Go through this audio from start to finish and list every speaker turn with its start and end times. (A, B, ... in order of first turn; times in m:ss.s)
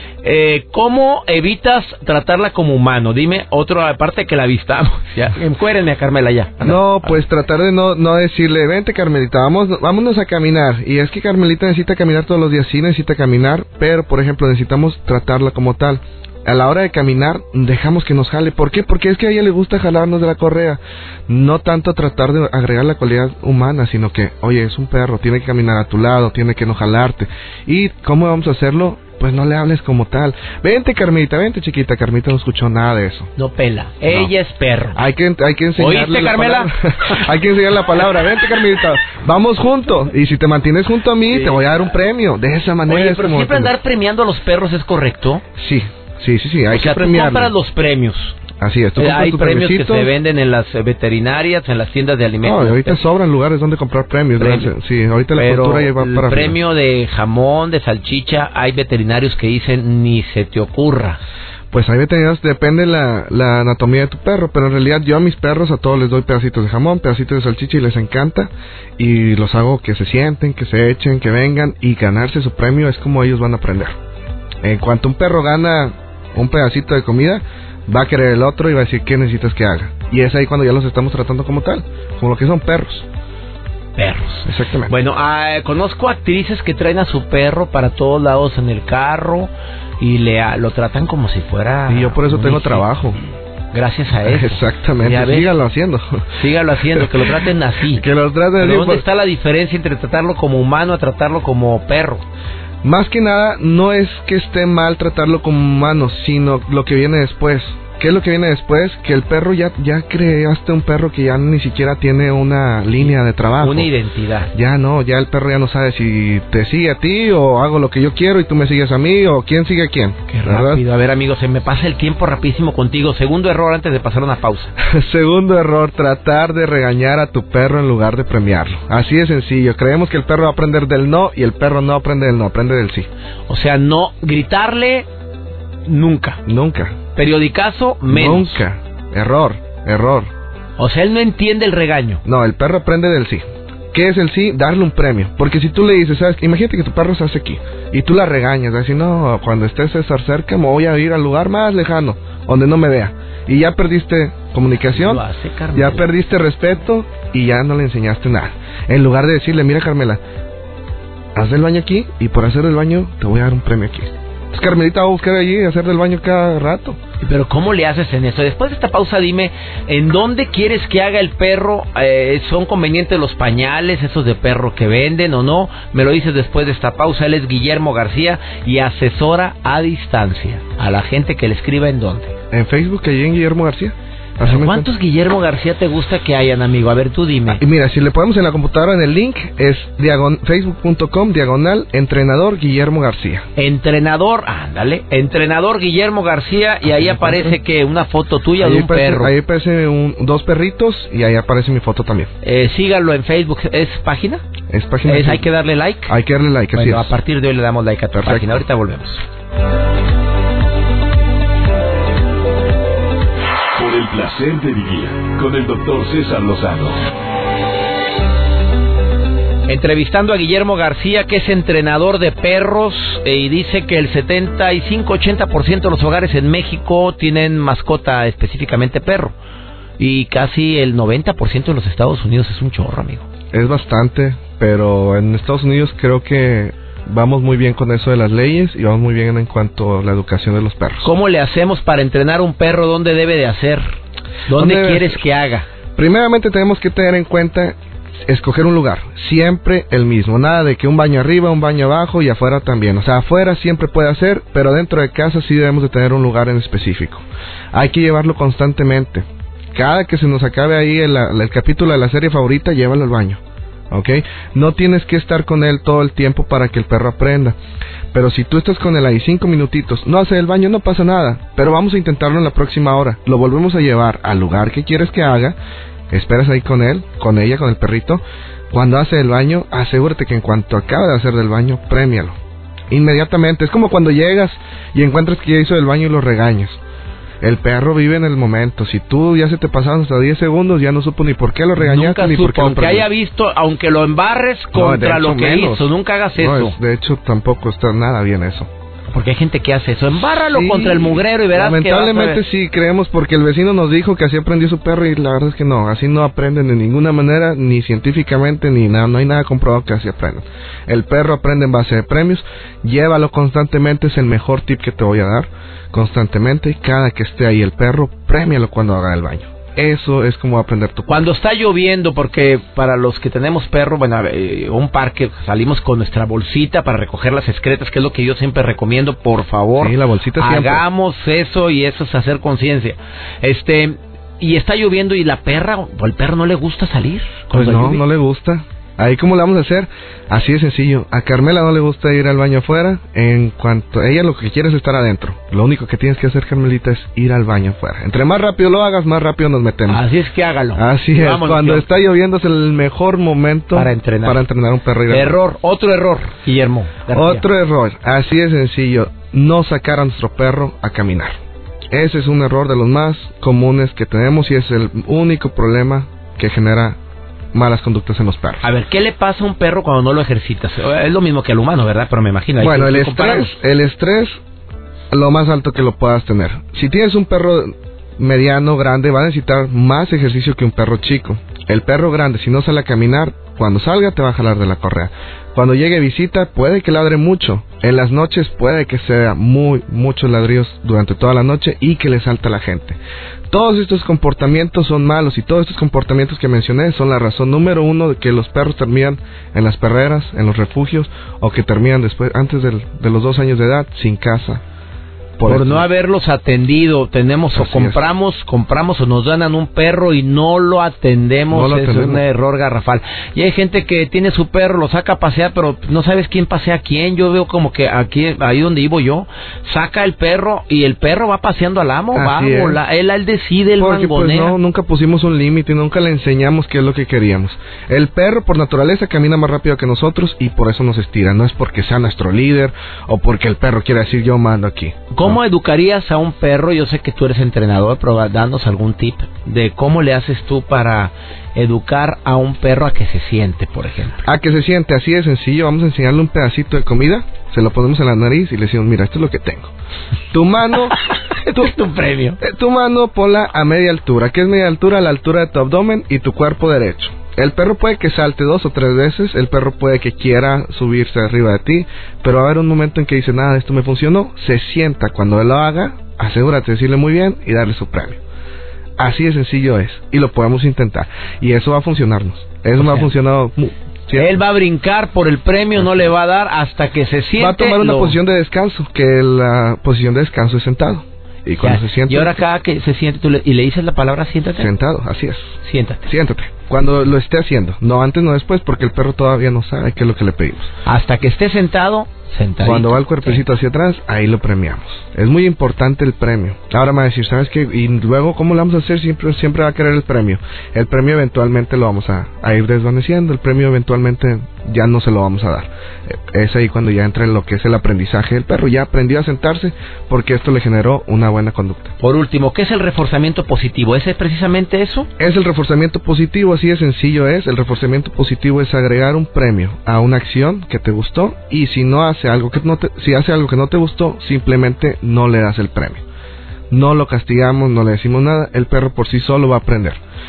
0:00.2-0:06.8 A
0:06.6-0:33.3 B
0:33.4-0:35.0 A
0:35.0-0:43.7 B
0:35.8-0:37.2 A
0:41.3-0:41.6 A
0:42.9-0:45.4 A
0:45.6-0:47.5 B
0:46.7-0:48.4 A
0:48.6-0:50.1 B
0:49.0-0:53.0 A
0:52.4-0:56.6 B
0:54.4-0:54.7 A
0:55.4-1:01.2 A
1:01.7-1:14.0 B
1:14.6-1:23.1 B
1:24.0-1:32.8 A
1:24.4-1:24.9 B
1:31.9-1:33.2 B
1:33.7-1:35.5 A
1:34.2-1:36.4 B
1:36.4-1:38.0 A
1:37.9-1:39.0 B
1:38.6-1:42.2 A
1:42.8-1:53.9 B
1:53.0-1:54.5 A
1:54.5-2:00.8 B
2:00.3-2:04.8 A
2:04.8-2:13.1 B
2:13.5-2:15.1 A
2:15.9-2:16.4 A
2:16.5-2:17.0 B
2:17.2-2:18.6 A
2:18.1-2:20.3 B
2:20.8-2:22.2 A
2:22.2-2:35.2 B
2:34.9-2:36.1 A
2:35.8-2:40.2 B
2:41.4-2:47.0 B
2:47.2-3:02.4 A
3:02.5-3:04.9 B
3:04.4-3:07.6 A
3:07.6-3:13.4 B
3:13.6-3:19.3 A
3:17.0-3:17.6 B
3:18.6-3:22.3 B
3:22.4-3:24.4 A
3:24.7-3:25.5 B
3:25.0-3:26.1 A
3:26.1-3:27.1 B
3:26.7-3:29.2 A
3:28.2-3:28.6 B
3:33.7-3:37.0 C
3:39.7-3:49.4 A
3:50.0-3:53.2 A
3:53.5-4:01.1 B
4:01.0-4:03.9 A
4:04.5-4:05.7 A
4:04.5-4:05.2 B
4:06.0-4:27.6 B
4:28.1-4:35.6 B
4:36.1-4:42.3 B
4:42.9-4:46.8 B
4:47.4-4:53.1 B
4:51.8-4:56.8 A
4:54.7-4:58.7 B
4:59.1-5:02.4 A
5:00.4-5:21.2 B
5:21.1-5:38.0 A
5:29.8-5:30.8 B
5:37.5-5:50.0 B
5:49.9-5:51.9 A
5:50.8-5:55.4 B
5:53.7-5:54.4 A
5:55.1-5:57.4 A
5:57.1-6:01.4 B
6:01.9-6:07.0 B
6:07.5-6:08.6 B
6:08.6-6:13.6 A
6:12.6-6:14.4 B
6:15.1-6:33.0 B
6:33.5-6:44.6 B
6:45.4-6:45.9 B
6:45.4-7:04.6 A
6:47.5-6:48.0 B
6:51.5-6:52.2 B
7:02.1-7:02.8 B
7:03.8-7:15.4 B
7:15.1-7:24.2 A
7:24.2-7:29.7 B
7:30.3-7:31.0 B
7:30.9-7:32.4 A
7:32.4-7:48.2 B
7:49.0-7:54.4 B
7:52.8-7:53.1 A
7:54.1-7:58.2 A
7:57.4-8:02.4 B
8:01.6-8:04.7 A
8:04.6-8:05.5 B
8:05.6-8:06.1 A
8:06.1-8:10.7 B
8:10.8-8:13.4 A
8:12.6-8:31.9 B
8:32.0-8:35.1 A
8:35.2-8:46.0 B
8:46.7-8:50.0 B